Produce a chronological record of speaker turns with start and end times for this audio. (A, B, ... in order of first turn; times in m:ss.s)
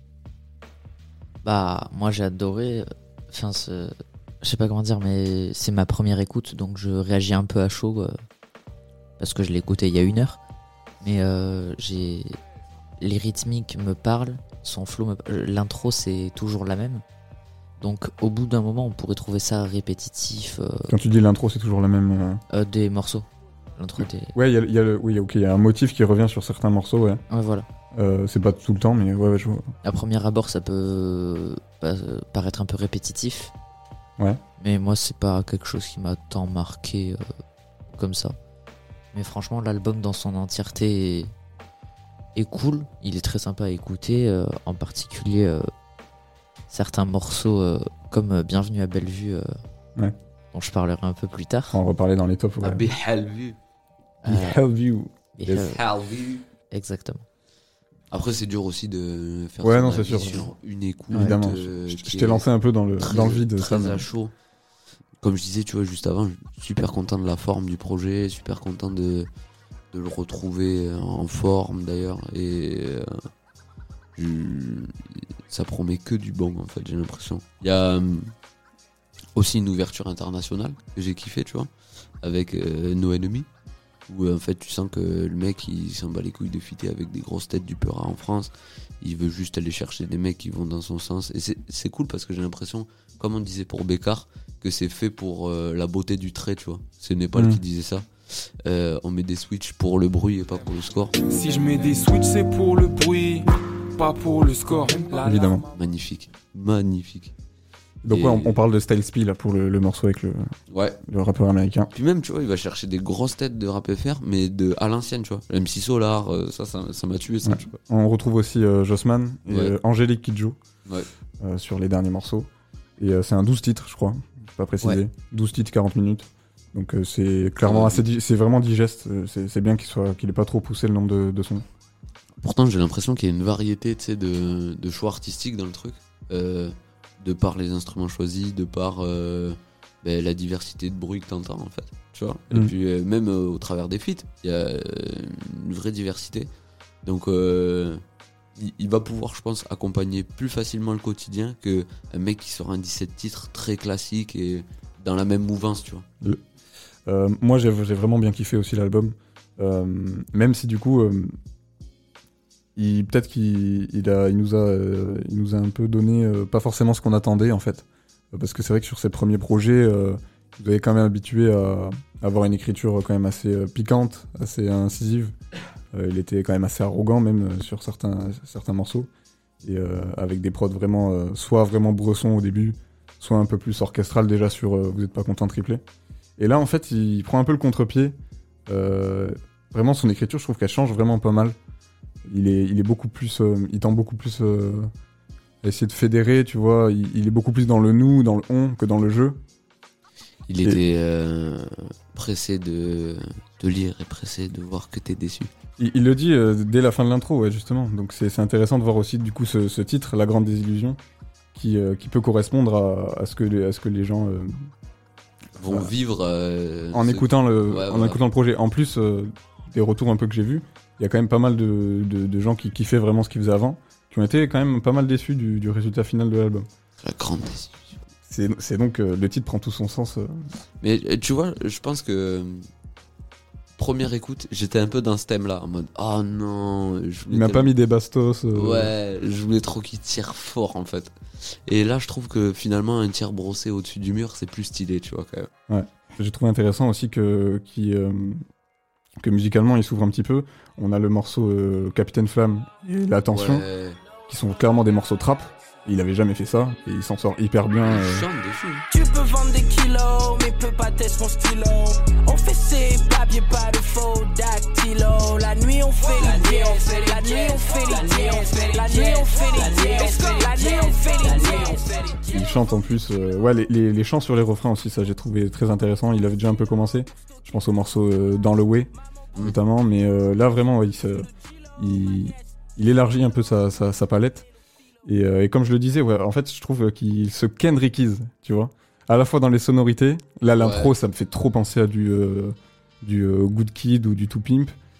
0:01.4-0:08.1 A
0:09.2-0:10.4 A
0:11.0-0:12.4 A
0:13.0-0:17.0 A
0:17.8-0:20.9 A
0:20.9-0:22.4 B
0:22.5-0:24.3 A
0:24.0-0:27.2 B
0:27.3-0:27.7 A
0:27.9-0:29.7 B
0:29.8-0:33.5 A
0:34.6-0:37.2 A
0:37.9-0:38.4 A
0:39.1-0:41.3 A
0:42.4-0:45.7 A
0:46.7-0:49.5 A
0:50.5-0:51.8 A
0:51.7-0:52.9 B
0:52.6-0:53.6 C
0:54.2-0:55.1 B
0:54.3-0:54.6 A
0:55.4-0:55.8 A
0:55.5-0:56.4 C
0:56.7-0:57.2 A
0:58.1-1:02.4 C
0:59.6-1:00.5 B
1:01.1-1:04.0 B
1:03.0-1:04.3 C
1:05.2-1:09.3 C
1:09.9-1:13.2 C
1:14.2-1:18.3 C
1:19.4-1:21.7 C
1:22.2-1:23.5 C
1:24.1-1:41.2 C
1:37.4-1:37.6 B
1:41.2-1:45.6 D
1:45.2-1:45.6 B
1:45.7-1:47.3 C
1:48.0-1:50.6 B
1:48.1-1:48.6 C
1:50.7-1:51.0 C
1:51.1-1:51.9 B
1:51.9-1:57.7 C
1:57.4-2:00.6 B
1:59.5-1:59.8 C
2:01.4-2:11.6 B
2:07.6-2:08.0 C
2:12.4-2:26.5 C
2:27.0-2:28.0 C
2:28.6-2:36.0 C
2:37.1-2:41.4 B
2:42.8-2:55.3 B
2:55.9-2:59.1 B
2:59.6-3:05.8 B
3:06.4-3:08.2 B
3:08.7-3:11.6 B
3:12.2-3:14.9 B
3:15.6-3:19.4 B
3:20.5-3:25.5 C
3:25.8-3:31.0 B
3:31.5-3:34.7 B
3:35.6-3:38.2 C
3:36.9-3:46.7 B
3:47.0-3:48.0 C
3:48.3-3:50.5 B
3:50.8-3:52.7 C
3:53.8-3:57.7 C
3:57.3-3:58.9 B
3:58.5-4:01.1 C
4:01.6-4:05.5 C
4:05.7-4:08.4 B
4:09.2-4:13.6 B
4:13.3-4:14.0 C
4:14.3-4:18.3 B
4:17.8-4:18.8 C
4:18.9-4:32.4 E
4:32.2-4:44.5 B
4:45.0-4:54.7 B
4:50.6-4:50.9 C